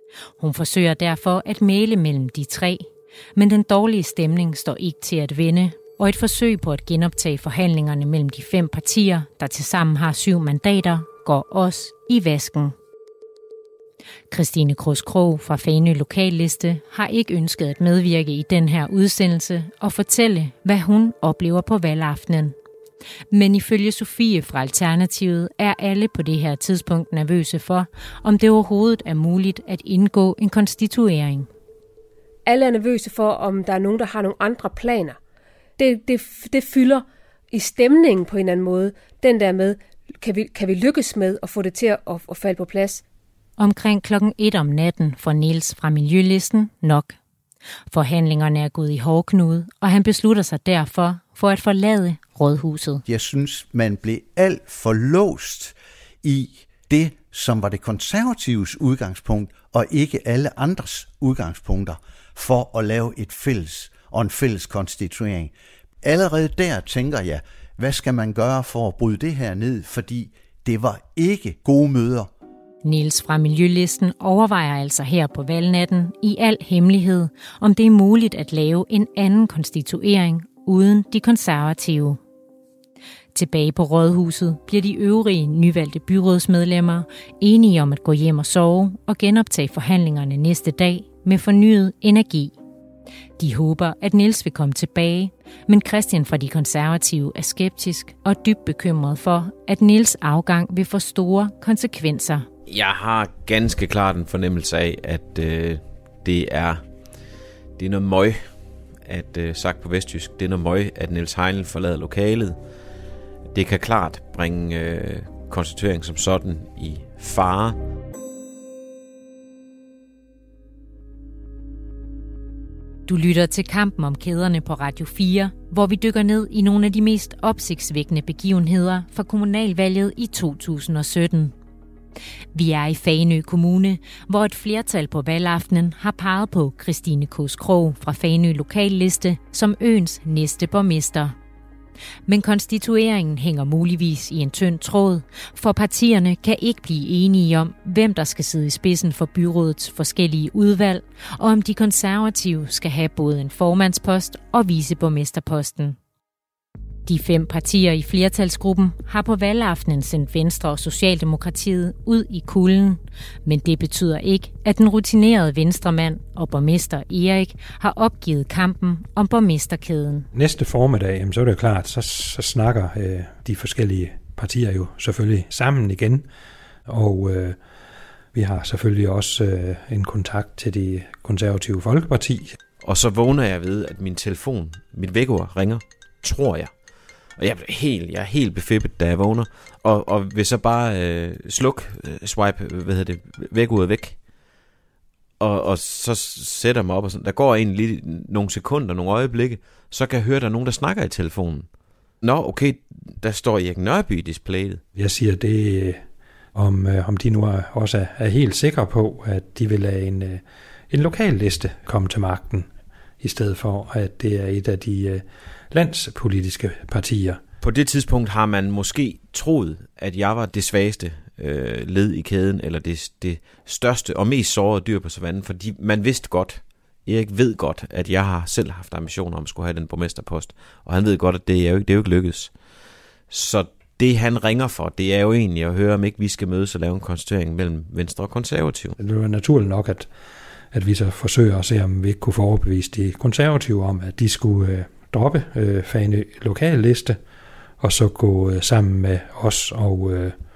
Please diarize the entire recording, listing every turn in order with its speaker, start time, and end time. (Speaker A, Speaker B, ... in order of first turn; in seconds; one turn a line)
Speaker A: 0.4-12.7
Speaker A: 14.3-22.5
Speaker A: 23.3-31.5
Speaker B: 32.5-35.2
Speaker B: 35.8-43.0
Speaker A: 43.6-47.2
Speaker A: 47.9-53.0
Speaker C: 53.0-72.3
Speaker A: 72.8-82.2
Speaker A: 83.3-92.5
Speaker A: 93.4-102.5
Speaker D: 102.7-106.8
Speaker D: 107.8-108.4
Speaker D: 109.0-112.6
Speaker D: 113.5-117.8
Speaker A: 123.1-131.5
Speaker A: 132.5-141.3
Speaker A: 142.3-156.0
Speaker A: 157.1-170.3
Speaker E: 170.3-176.3
Speaker E: 176.9-177.6
Speaker E: 178.3-182.6
Speaker D: 182.8-186.7
Speaker D: 187.4-194.2
Speaker D: 195.4-201.7
Speaker D: 202.2-204.8
Speaker E: 204.9-206.0
Speaker E: 206.5-212.7
Speaker E: 213.2-217.4
Speaker D: 217.6-232.5
Speaker D: 233.3-239.0
Speaker E: 239.0-240.1
Speaker E: 240.7-247.2
Speaker E: 247.8-250.3